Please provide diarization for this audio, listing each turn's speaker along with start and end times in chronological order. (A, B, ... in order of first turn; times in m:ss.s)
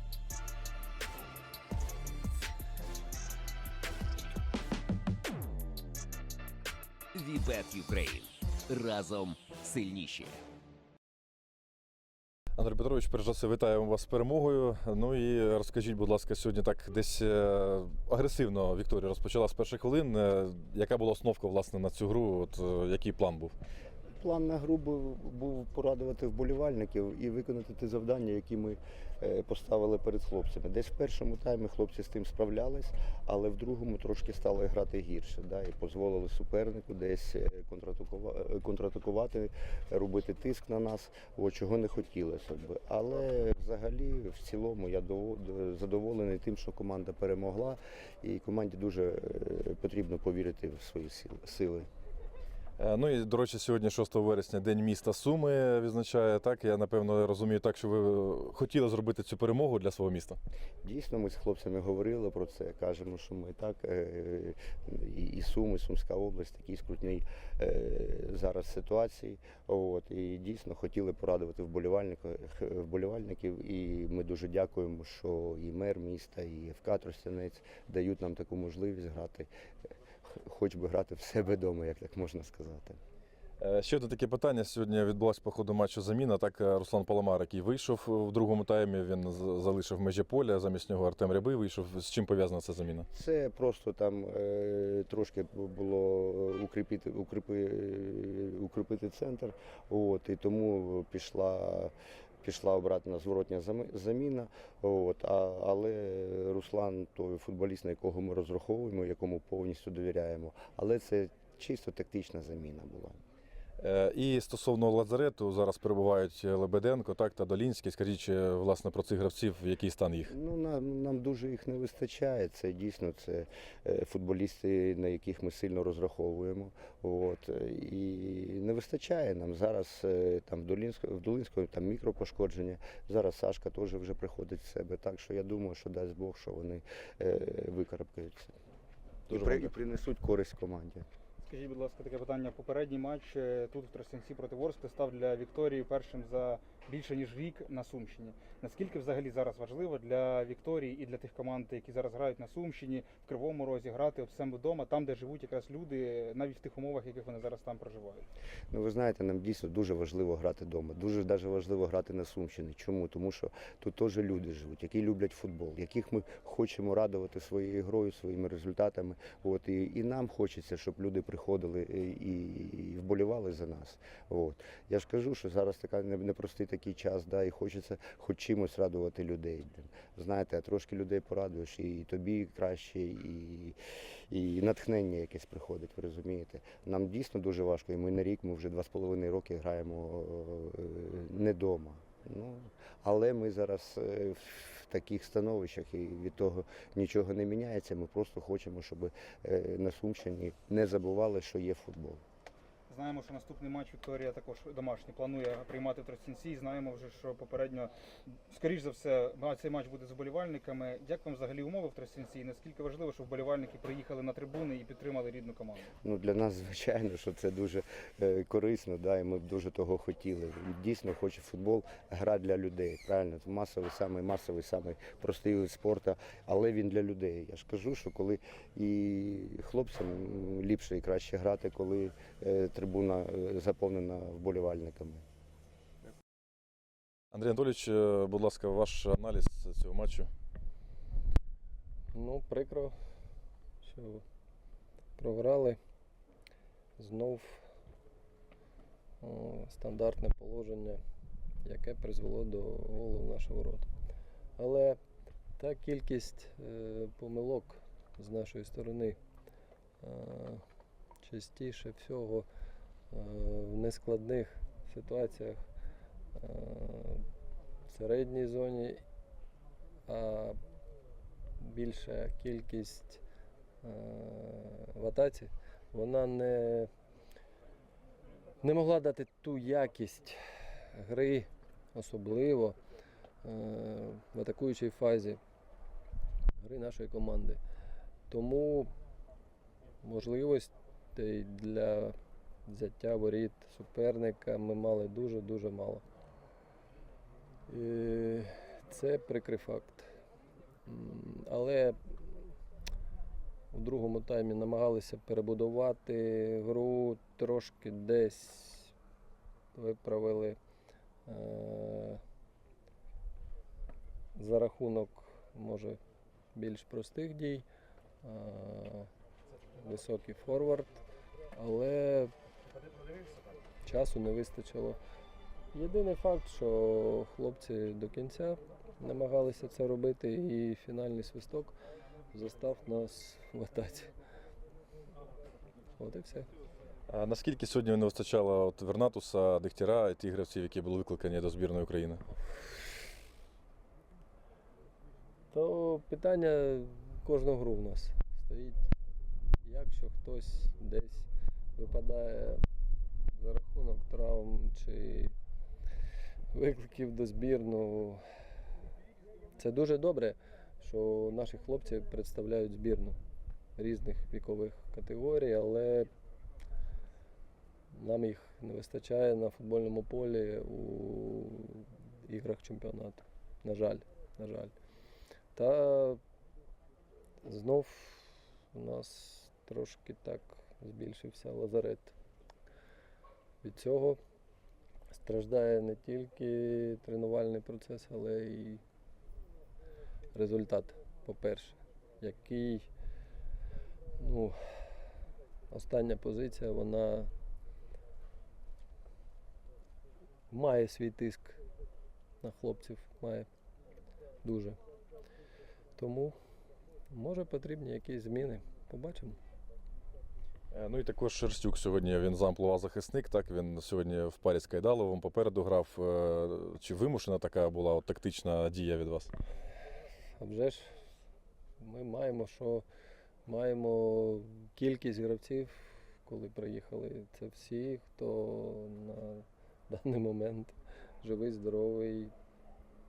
0:07.2-0:10.3 A
0:12.6-0:23.5 B
0:24.2-0:51.9 C
0:52.8-1:00.4 B
1:00.8-1:19.5 C
1:20.3-1:23.0 C
1:23.6-1:33.1 B
1:33.1-1:53.2 C
1:53.8-2:00.3 B
2:00.3-2:18.5 C
2:19.3-2:21.1 C
2:19.3-2:19.7 B
2:21.4-2:38.2 D
2:38.7-3:03.8 C
3:04.3-3:22.2 C
3:22.9-3:35.9 D
3:36.0-3:55.2 C
3:57.3-4:00.3 B
4:02.1-4:02.9 E
4:03.8-4:04.2 E
4:05.2-4:05.8 E
4:07.0-4:07.6 E
4:09.2-4:11.0 E
4:11.6-4:13.9 E
4:14.6-4:15.0 E
4:15.6-4:19.2 E
4:20.0-4:20.6 E
4:21.2-4:22.5 E
4:23.1-4:25.6 E
4:26.4-4:27.2 E
4:27.9-4:29.0 E
4:30.1-4:30.6 E
4:31.6-4:33.2 E
4:33.8-4:36.9 E
4:38.6-4:42.8 E
4:43.4-4:45.4 E
4:46.6-4:47.6 E
4:48.3-4:48.9 E
4:50.0-4:56.0 E
4:57.7-5:00.1 E
5:00.9-5:02.4 E
5:03.7-5:08.9 E
5:09.7-5:10.6 E
5:11.3-5:12.2 E
5:14.4-5:16.0 E
5:16.5-5:17.7 E
5:18.2-5:19.1 E
5:19.8-5:21.0 E
5:21.5-5:22.3 E
5:23.8-5:25.0 E
5:25.7-5:31.8 E
5:32.3-5:34.1 E
5:36.0-5:36.5 E
5:37.1-5:42.2 B
5:45.5-5:48.9 E
5:49.6-5:52.6 E
5:53.2-5:55.3 E
5:56.5-5:58.2 E
5:59.6-6:03.2 E
6:03.8-6:06.1 E
6:07.9-6:14.7 E
6:15.6-6:16.2 E
6:17.4-6:22.2 E
6:23.6-6:24.2 E
6:25.1-6:28.8 E
6:30.3-6:32.9 E
6:34.2-6:34.9 E
6:35.7-6:37.3 E
6:40.5-6:41.6 E
6:42.4-6:43.5 E
6:44.4-6:44.8 E
6:46.0-6:46.4 E
6:47.1-6:49.4 E
6:50.7-6:59.3 B
7:00.4-7:00.9 E
7:01.8-7:02.8 E
7:03.5-7:12.3 E